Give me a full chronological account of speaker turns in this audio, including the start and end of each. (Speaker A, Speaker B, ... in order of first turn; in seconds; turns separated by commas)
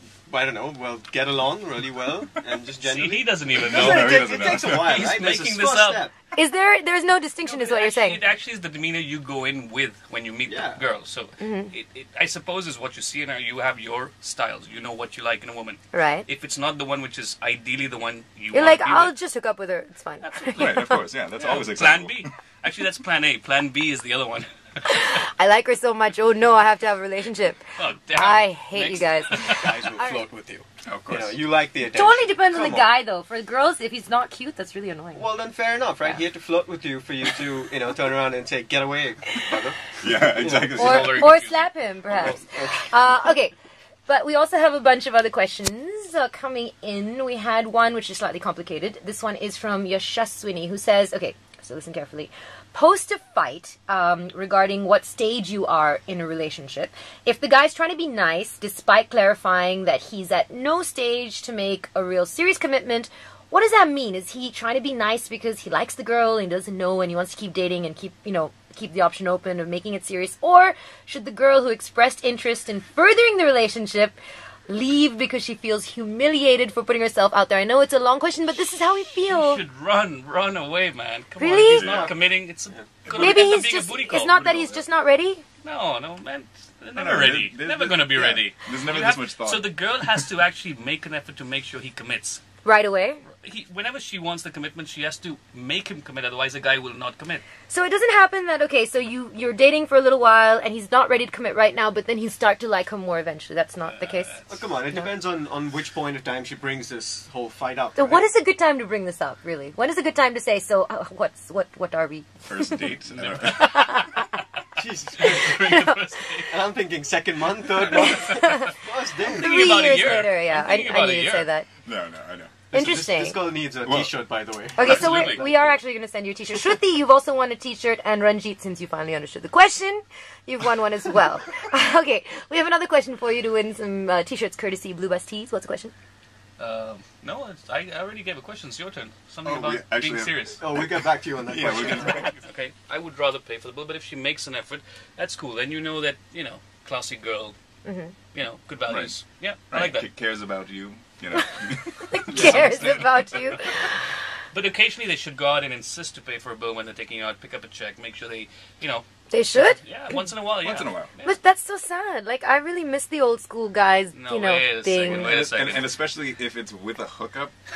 Speaker A: 0.2-6.1, Speaker B: 2.8-6.0, Speaker C: 3.6-5.0, Speaker D: 6.3-8.2, Speaker B: 7.5-19.1, Speaker A: 10.4-10.8, Speaker D: 11.4-11.7, Speaker D: 15.9-16.3, Speaker D: 18.5-21.0, Speaker B: 20.2-20.8, Speaker C: 20.5-22.3, Speaker B: 21.4-24.5, Speaker D: 24.8-30.2, Speaker B: 27.8-29.8, Speaker A: 29.4-33.0, Speaker C: 30.8-31.4, Speaker D: 31.9-35.3, Speaker A: 35.1-41.0, Speaker C: 40.0-41.3, Speaker B: 40.6-41.7, Speaker D: 40.8-43.5, Speaker A: 42.1-43.0, Speaker D: 44.1-74.2, Speaker D: 74.7-79.6, Speaker B: 79.2-84.8, Speaker D: 81.4-82.0, Speaker C: 81.8-82.1, Speaker A: 81.8-82.1, Speaker A: 82.7-83.5, Speaker D: 83.1-85.4, Speaker B: 85.6-92.4, Speaker C: 87.0-90.2, Speaker D: 92.6-93.2, Speaker B: 93.4-97.4, Speaker D: 97.7-104.4, Speaker B: 103.9-104.4, Speaker A: 104.5-108.2, Speaker D: 108.0-112.9, Speaker C: 112.4-113.9, Speaker B: 113.1-114.2, Speaker D: 113.5-114.3, Speaker A: 114.8-115.7, Speaker B: 115.2-116.6, Speaker D: 115.5-116.0, Speaker A: 116.5-119.6, Speaker D: 117.9-121.7, Speaker B: 118.1-118.5, Speaker B: 119.2-121.5, Speaker C: 121.8-122.5, Speaker A: 122.7-125.8, Speaker D: 122.7-123.4, Speaker C: 123.8-124.1, Speaker D: 124.8-135.9, Speaker B: 124.8-125.5, Speaker B: 136.6-140.6, Speaker C: 139.4-142.3, Speaker A: 140.6-142.3, Speaker B: 142.4-147.6, Speaker D: 147.8-148.1, Speaker B: 148.3-150.1, Speaker C: 148.9-153.2, Speaker D: 151.3-154.1, Speaker B: 152.3-153.6, Speaker B: 154.5-159.0, Speaker D: 159.3-159.8, Speaker B: 159.6-161.4, Speaker C: 160.6-161.1, Speaker D: 161.2-165.3, Speaker B: 164.1-165.9, Speaker C: 165.1-167.5